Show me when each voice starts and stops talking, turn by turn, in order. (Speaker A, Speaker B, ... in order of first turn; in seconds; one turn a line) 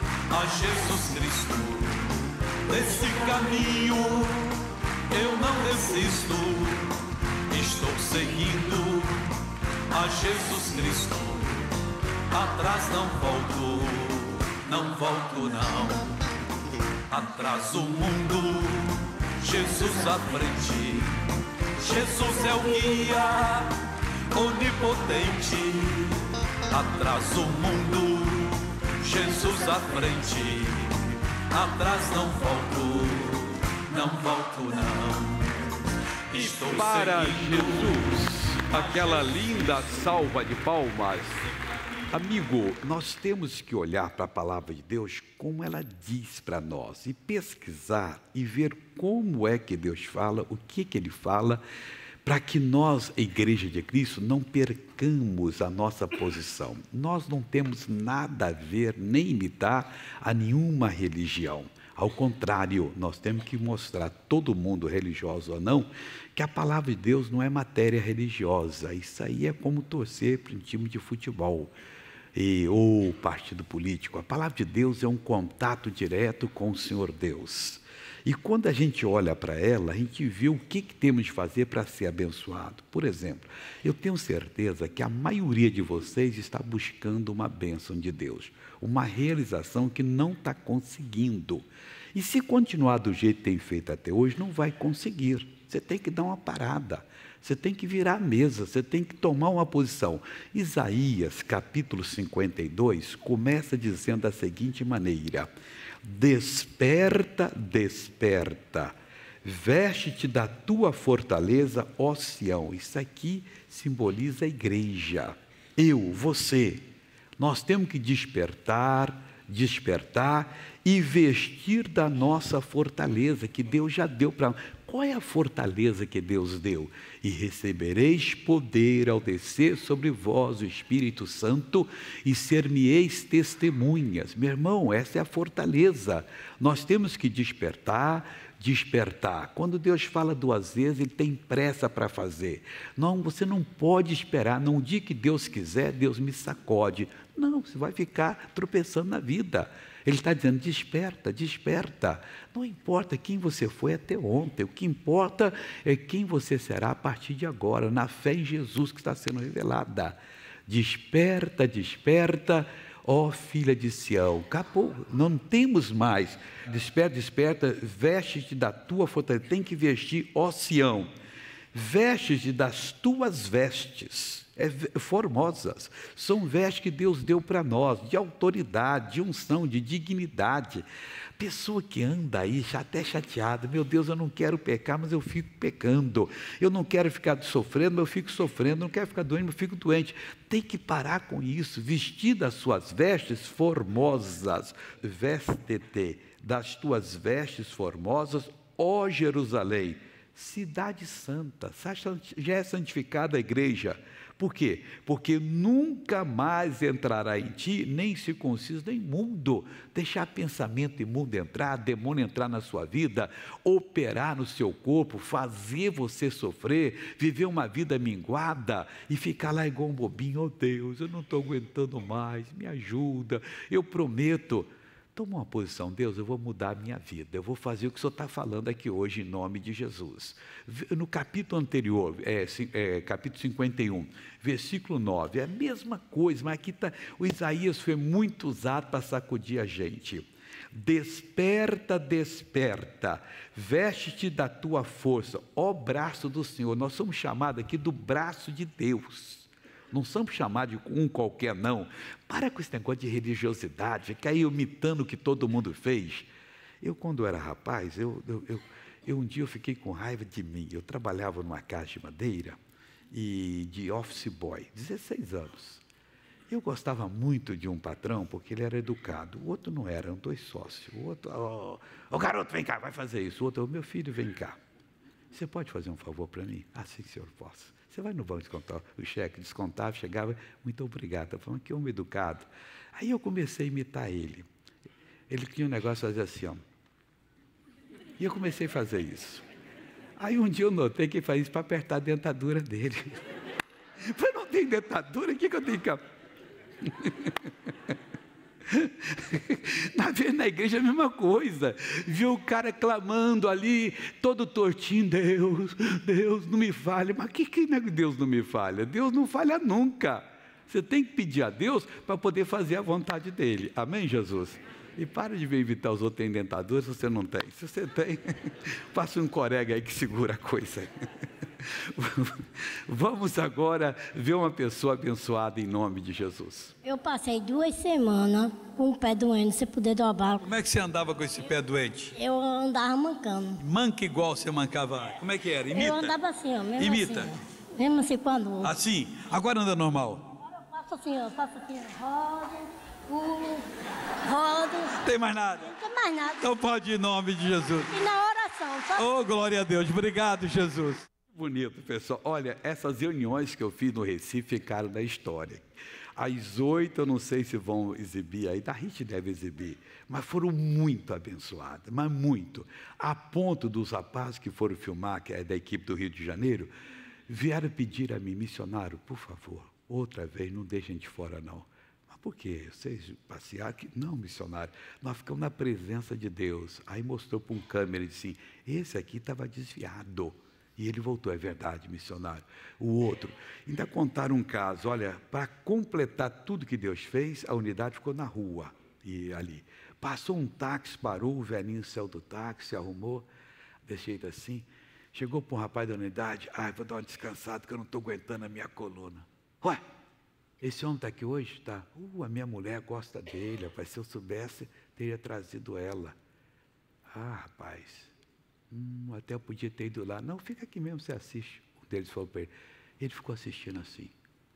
Speaker A: 0.3-2.1
Speaker A: 2.7-6.9
Speaker A: 7.5-9.3
Speaker A: 9.9-11.6
Speaker A: 12.3-16.1
Speaker A: 17.1-21.2
Speaker A: 21.8-23.7
Speaker A: 24.3-26.2
Speaker A: 26.7-31.0
Speaker A: 31.5-35.5
Speaker A: 36.3-40.7
Speaker B: 36.4-41.4
Speaker B: 42.1-51.6
Speaker B: 52.2-71.7
Speaker B: 72.3-105.5
Speaker B: 106.0-116.8
Speaker B: 117.4-171.1
Speaker B: 171.7-180.8
Speaker B: 181.4-256.3
Speaker B: 256.8-262.6
Speaker B: 263.1-265.8
Speaker B: 266.5-274.6
Speaker B: 275.3-284.5
Speaker B: 285.3-286.6
Speaker B: 288.2-289.4
Speaker B: 290.2-293.2
Speaker B: 294.0-296.0
Speaker B: 296.8-297.5
Speaker B: 298.7-320.9
Speaker B: 321.8-326.7
Speaker C: 326.8-330.4
Speaker A: 330.4-332.1
Speaker C: 332.1-333.6
Speaker A: 333.6-336.2
Speaker C: 335.7-338.7
Speaker A: 336.8-337.3
Speaker A: 338.6-340.3
Speaker C: 340.7-343.7
Speaker C: 344.2-345.0
Speaker A: 345.0-345.7
Speaker C: 345.6-346.5
Speaker A: 346.4-348.0
Speaker C: 347.9-349.1
Speaker A: 348.9-351.1
Speaker B: 351.3-355.6
Speaker B: 356.1-366.7
Speaker B: 367.3-393.3
Speaker B: 393.9-399.8
Speaker B: 400.6-406.1
Speaker B: 407.1-408.1
Speaker B: 408.7-414.1